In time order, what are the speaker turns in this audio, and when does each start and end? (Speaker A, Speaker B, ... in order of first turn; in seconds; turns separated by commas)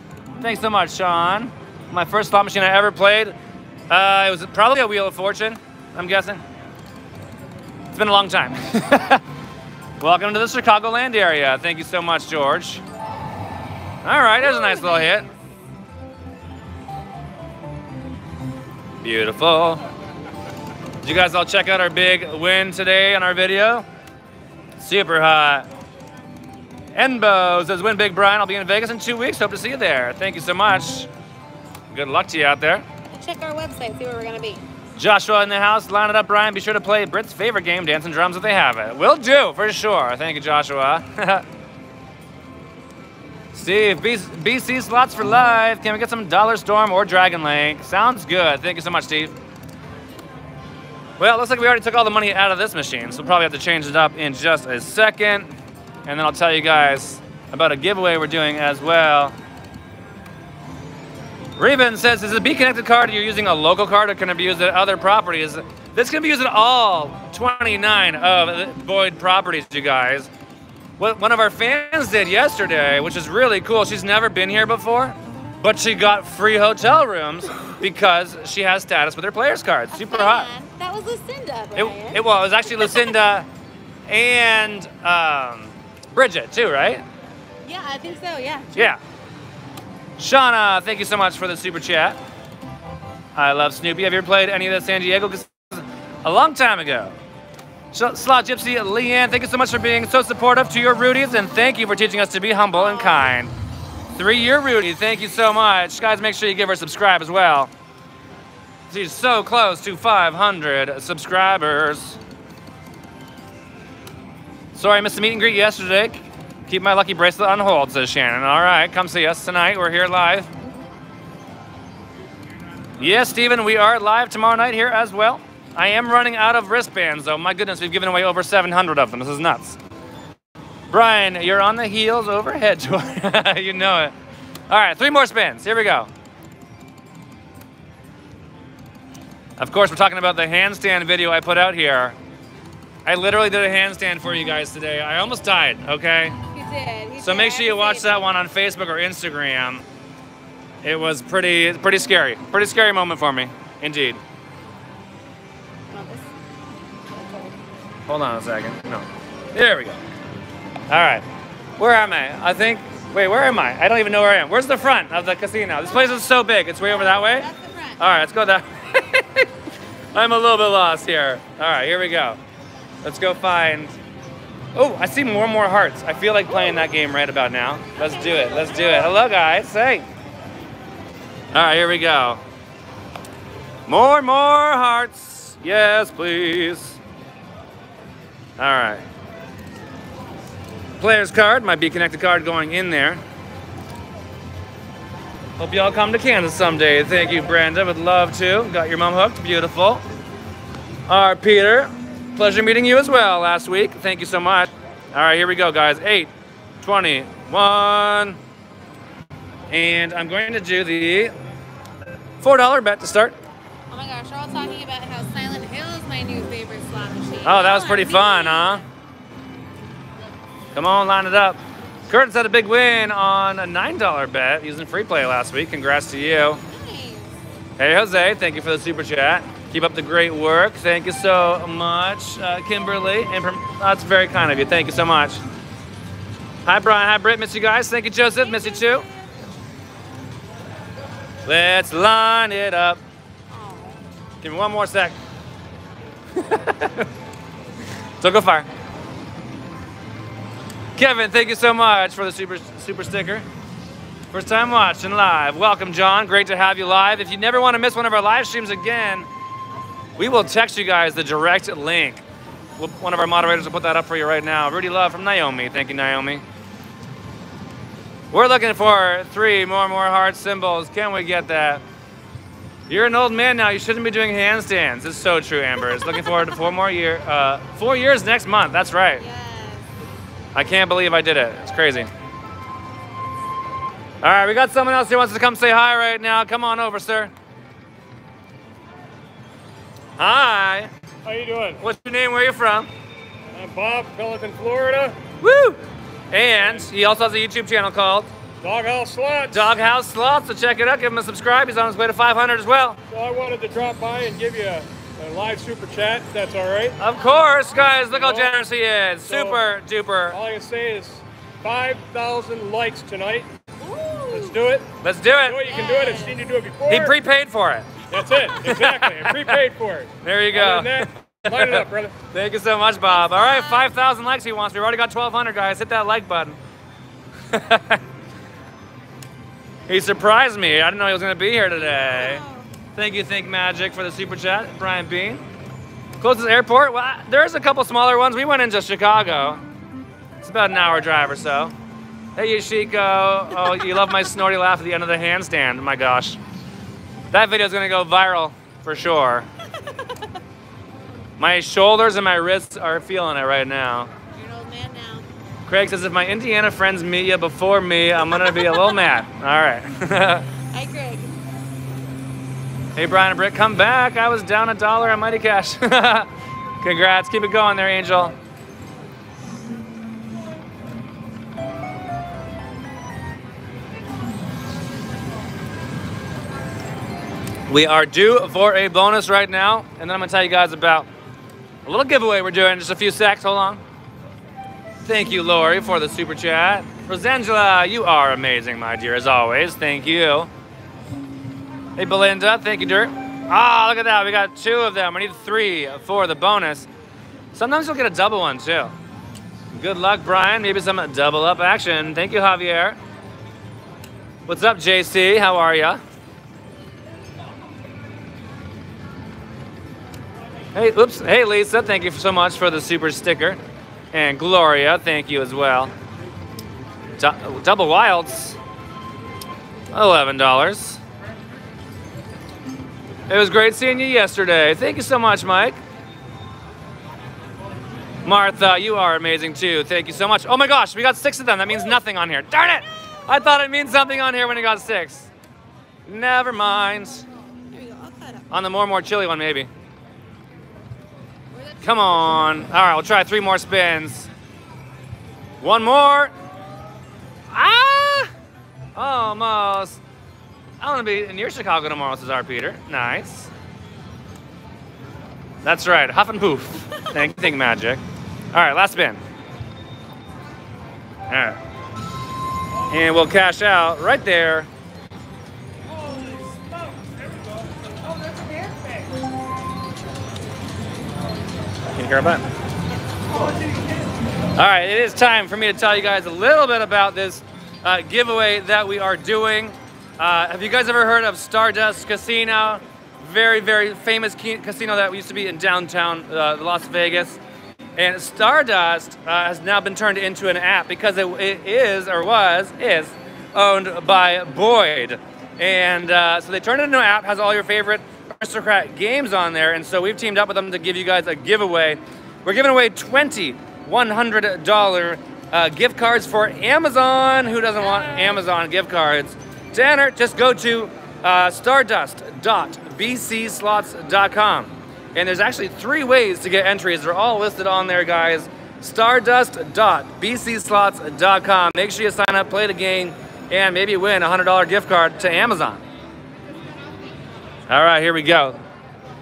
Speaker A: 0.4-3.3, Speaker A: 3.9-6.4, Speaker A: 7.9-9.2, Speaker A: 10.0-12.8, Speaker A: 14.0-15.3, Speaker B: 14.4-15.3, Speaker A: 19.0-19.8, Speaker A: 21.0-23.9, Speaker A: 24.8-25.6, Speaker A: 26.9-31.1, Speaker A: 31.9-32.8, Speaker B: 33.1-34.6, Speaker A: 35.0-41.4, Speaker A: 43.5-49.3, Speaker A: 51.2-55.5, Speaker A: 56.0-59.3, Speaker A: 61.6-70.3, Speaker A: 71.0-80.5, Speaker B: 79.9-82.2, Speaker A: 81.7-83.5, Speaker B: 82.7-83.1, Speaker A: 84.1-87.0, Speaker B: 87.6-88.9, Speaker A: 90.2-92.2, Speaker A: 93.3-97.1, Speaker A: 97.9-103.5, Speaker B: 102.7-103.3, Speaker A: 104.1-107.7, Speaker A: 108.9-112.2, Speaker A: 114.7-120.5, Speaker A: 123.0-129.8, Speaker A: 130.9-134.1, Speaker A: 134.7-136.1, Speaker A: 139.6-142.2, Speaker A: 143.0-146.4, Speaker B: 146.5-148.3, Speaker A: 147.2-149.8, Speaker A: 150.8-154.2, Speaker B: 155.9-156.3, Speaker A: 158.1-160.0, Speaker A: 160.9-161.2, Speaker A: 161.8-169.5, Speaker B: 166.9-168.0, Speaker A: 170.1-172.4, Speaker A: 173.0-173.9, Speaker A: 174.7-180.1, Speaker B: 176.5-176.8, Speaker B: 178.0-179.2, Speaker A: 181.5-182.4, Speaker A: 183.9-187.0, Speaker A: 188.6-189.0, Speaker A: 191.0-193.2, Speaker A: 195.6-200.0, Speaker A: 201.1-208.4, Speaker A: 209.7-211.3, Speaker A: 212.4-213.3, Speaker B: 213.9-218.8, Speaker A: 217.4-218.8, Speaker A: 220.7-226.6, Speaker B: 226.7-227.4, Speaker A: 227.8-235.4, Speaker A: 236.6-239.0, Speaker B: 238.4-239.4, Speaker A: 241.4-243.0, Speaker B: 243.5-244.0, Speaker A: 244.4-245.2, Speaker A: 246.4-247.1, Speaker A: 248.2-248.7, Speaker A: 251.0-253.4, Speaker A: 254.3-259.3, Speaker A: 260.2-262.2, Speaker A: 262.8-266.4, Speaker A: 268.3-271.8, Speaker A: 272.9-279.2, Speaker B: 279.2-279.9, Speaker A: 280.5-282.1, Speaker A: 284.2-287.3, Speaker A: 290.2-290.9, Speaker C: 291.2-291.8, Speaker A: 291.8-292.9, Speaker C: 293.5-295.2, Speaker A: 295.4-295.8, Speaker A: 296.3-298.3, Speaker C: 298.6-299.7, Speaker A: 299.5-303.0, Speaker C: 303.1-307.0, Speaker A: 307.0-310.4, Speaker C: 308.1-308.6, Speaker C: 309.3-309.6, Speaker C: 310.3-313.5, Speaker B: 313.8-314.6, Speaker C: 314.3-314.9, Speaker A: 315.0-315.7, Speaker C: 315.4-317.2, Speaker B: 315.7-316.4, Speaker A: 316.9-317.9, Speaker C: 318.1-322.1, Speaker A: 318.5-319.6, Speaker A: 320.2-326.6, Speaker B: 323.2-323.9, Speaker A: 327.5-328.0, Speaker A: 329.9-332.4, Speaker B: 331.7-332.7, Speaker A: 332.9-335.4, Speaker A: 336.2-339.6, Speaker A: 340.4-341.7, Speaker A: 342.4-346.4, Speaker A: 347.3-349.5, Speaker A: 351.4-354.1, Speaker B: 354.3-355.2, Speaker A: 355.7-360.5, Speaker B: 358.4-359.0, Speaker B: 360.7-361.3, Speaker A: 362.9-366.3, Speaker A: 366.8-368.3, Speaker A: 377.7-381.1, Speaker A: 381.9-383.8, Speaker A: 385.0-390.5, Speaker A: 391.9-396.9, Speaker A: 397.5-398.9, Speaker A: 399.7-403.0, Speaker A: 404.5-406.0, Speaker A: 410.7-413.6, Speaker A: 414.1-415.9, Speaker A: 417.2-418.6, Speaker A: 419.9-421.0, Speaker A: 423.3-425.8, Speaker A: 428.2-435.3, Speaker A: 436.1-437.2, Speaker B: 437.7-438.4, Speaker A: 438.5-439.7, Speaker B: 441.5-442.2, Speaker A: 441.8-444.3, Speaker A: 445.6-446.3, Speaker A: 447.5-448.3, Speaker A: 448.9-450.0, Speaker A: 450.8-453.5, Speaker A: 455.6-458.0, Speaker A: 458.5-459.2, Speaker A: 461.3-461.6, Speaker A: 462.9-464.7, Speaker A: 471.8-472.4, Speaker A: 474.6-487.4, Speaker A: 488.0-525.8, Speaker A: 527.7-528.6